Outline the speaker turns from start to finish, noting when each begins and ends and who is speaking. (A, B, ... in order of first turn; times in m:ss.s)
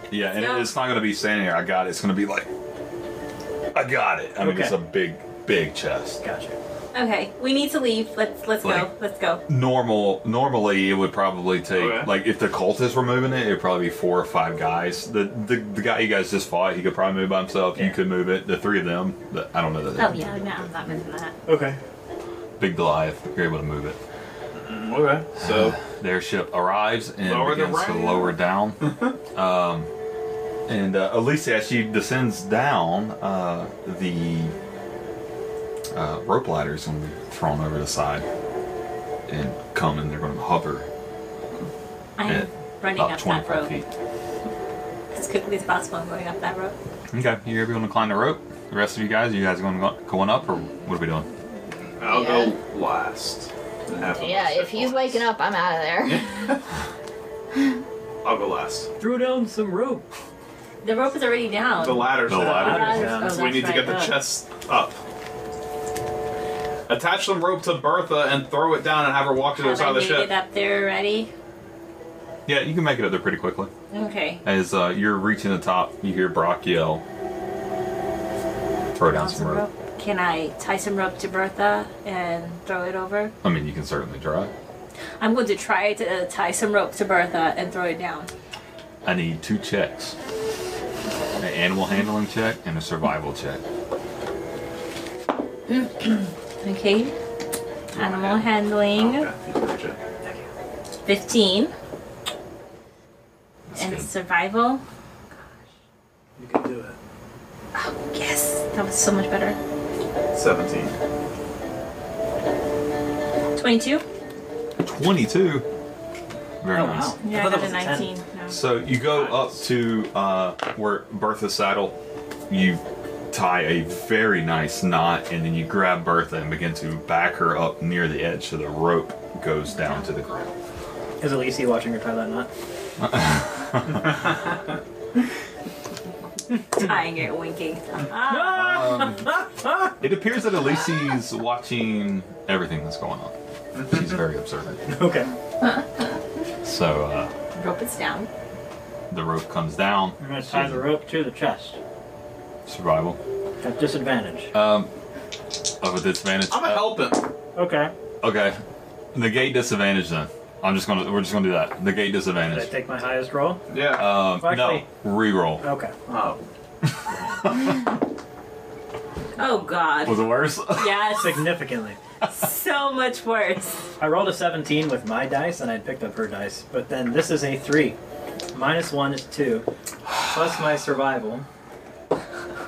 0:00.1-0:02.5 A
0:00.3-0:00.7 B
0:03.7-0:06.2 A
0:04.4-0:04.8 C
0:06.2-0:06.6 C
0:06.9-0:09.4 B
0:08.6-0:08.9 A
0:09.5-0:20.4 A
0:11.7-0:12.1 D
0:20.0-0:21.4 B
0:21.5-0:21.8 C
0:22.6-0:24.0 A
0:24.5-0:25.8 D
0:25.4-0:29.9 A
0:27.2-0:29.1 D
0:30.7-0:34.6 A
0:35.9-0:38.2 A
0:39.3-0:40.9 A
0:42.2-0:43.7 B
0:42.2-0:43.9 A
0:45.1-0:46.7 B
0:47.1-0:51.3 A
0:52.0-0:55.3 D
0:52.1-0:52.5 E
0:54.1-0:56.4 E
0:56.0-0:56.6 D
0:58.2-0:58.9 D
0:59.0-1:00.0 C
1:00.8-1:04.2 B
1:01.8-1:05.0 D
1:02.2-1:03.1 A
1:02.3-1:03.4 C
1:06.9-1:10.3 D
1:09.6-1:11.3 B
1:12.4-1:13.7 A
1:13.9-1:14.4 B
1:14.4-1:17.0 A
1:18.9-1:19.6 A
1:19.1-1:23.3 B
1:23.4-1:24.5 A
1:25.2-1:28.3 B
1:29.0-1:30.2 A
1:31.4-1:33.6 A
1:35.7-1:37.1 B
1:37.9-1:39.3 B
1:38.0-1:38.4 D
1:38.9-1:40.0 D
1:41.0-1:41.7 B
1:43.7-1:44.1 A
1:43.7-1:44.8 B
1:46.4-1:47.0 C
1:47.7-1:49.6 B
1:50.3-1:50.9 D
1:53.6-1:54.0 B
1:54.8-1:55.6 A
1:56.6-1:57.1 A
1:56.7-1:58.1 C
1:57.2-1:58.6 B
1:58.5-2:02.0 A
1:59.2-1:59.5 D
2:02.5-2:10.5 A
2:09.8-2:10.2 B
2:11.2-2:12.5 C
2:13.0-2:14.2 A
2:16.7-2:19.0 B
2:18.2-2:20.0 C
2:18.5-2:19.4 A
2:20.0-2:24.8 A
2:24.9-2:25.3 C
2:26.6-2:27.3 A
2:27.5-2:28.3 B
2:29.1-2:30.9 A
2:30.2-2:31.8 C
2:32.6-2:33.2 A
2:33.6-2:34.5 C
2:34.5-2:34.9 A
2:35.8-2:37.1 A
2:36.5-2:37.3 D
2:37.6-2:37.9 C
2:38.2-2:38.6 A
2:39.1-2:42.7 A
2:42.5-2:43.6 C
2:43.7-2:44.2 D
2:43.9-2:45.6 A
2:44.3-2:44.9 C
2:45.6-2:45.9 C
2:46.1-2:46.4 D
2:47.4-2:47.8 A
2:49.4-2:51.4 B
2:50.0-2:51.1 A
2:51.1-2:52.0 C
2:52.3-2:53.8 B
2:54.0-2:58.0 C
2:58.5-2:59.6 C
3:00.3-3:01.4 C